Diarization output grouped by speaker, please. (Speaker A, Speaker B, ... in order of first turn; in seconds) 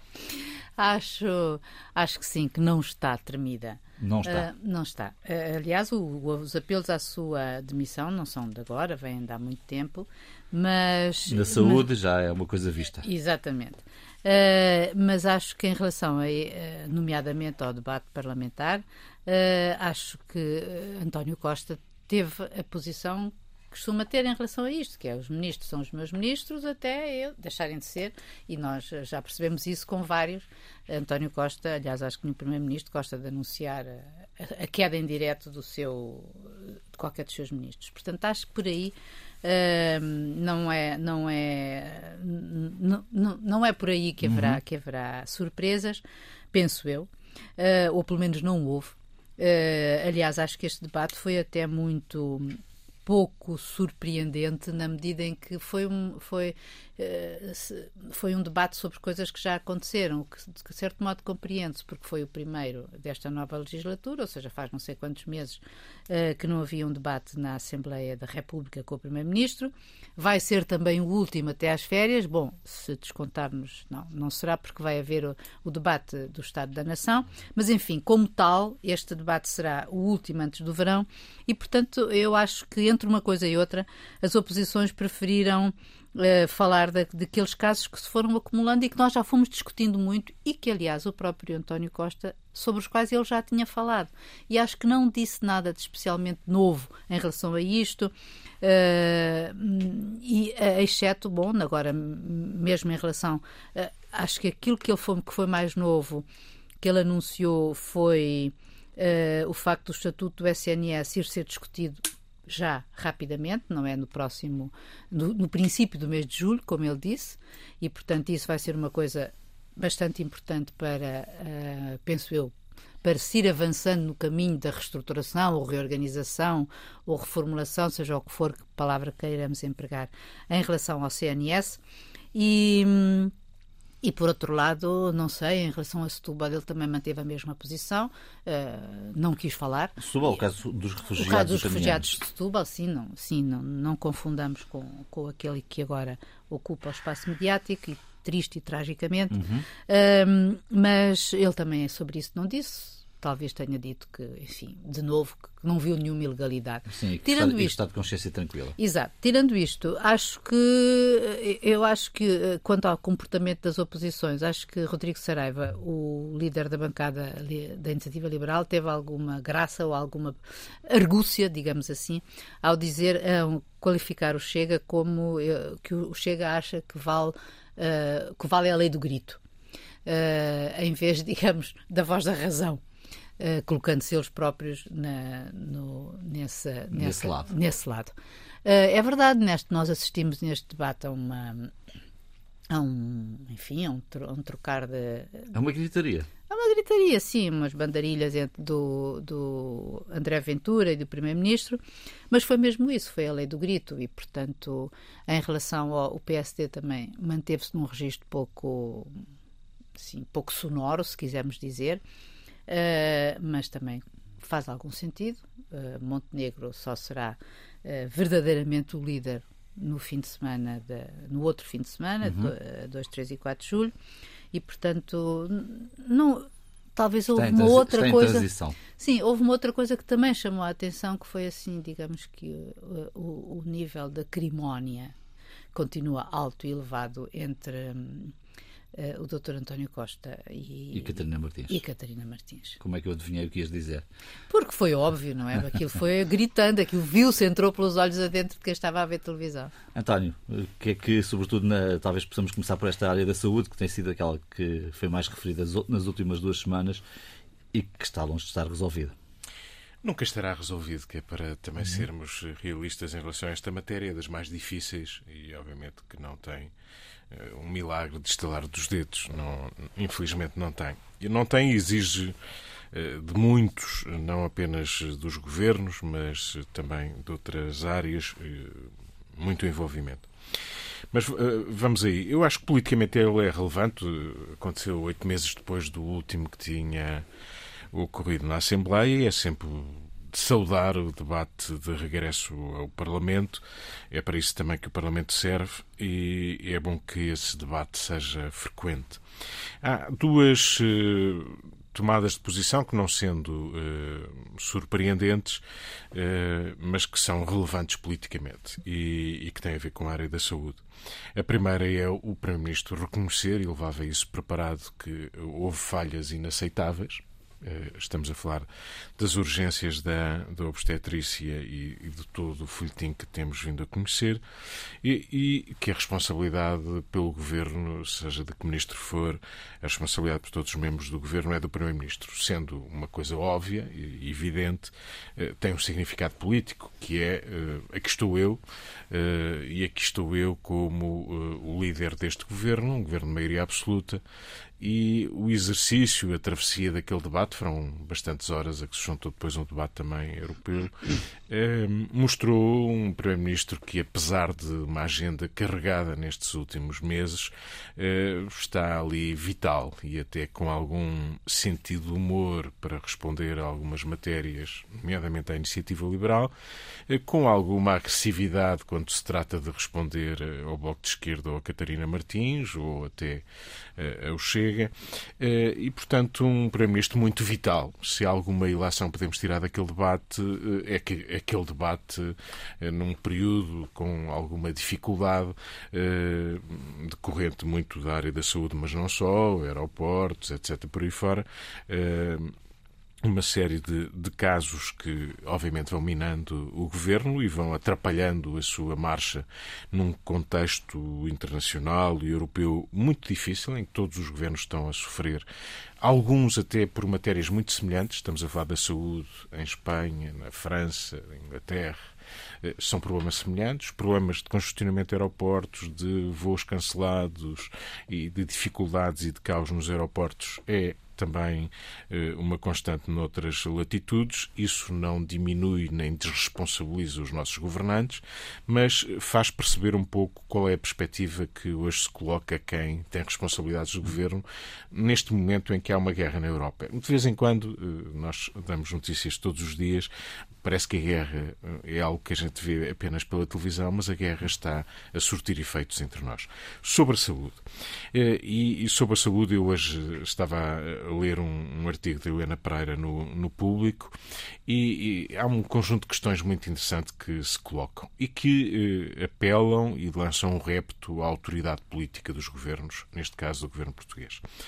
Speaker A: 0.8-11.9, 13.0-106.3, 106.8-122.5, 123.0-131.8, 132.3-133.3, 134.0-140.0, 141.2-157.8, 158.8-179.4, 180.1-182.8, 183.4-188.1, 188.7-191.7, 192.7-195.5, 196.5-209.2, 210.0-212.0, 212.7-223.9, 224.5-235.1, 235.7-238.3, 238.9-242.8, 244.5-249.7
Speaker B: 4.0-4.5, 11.3-13.1, 44.3-44.6, 140.0-142.1, 149.3-149.7, 156.9-158.8, 186.9-187.5, 195.5-196.3, 222.2-222.5, 227.4-228.8, 240.9-241.8, 242.8-244.1, 249.9-257.0, 257.7-259.1
Speaker C: 260.0-266.7, 267.3-272.4, 272.9-280.3, 281.1-287.3, 287.9-299.2, 299.8-305.6, 306.1-310.8, 311.4-318.7, 319.2-324.4, 325.0-344.2, 344.8-366.5, 367.1-373.4, 374.0-392.5, 393.2-405.5, 406.0-440.1, 440.6-464.4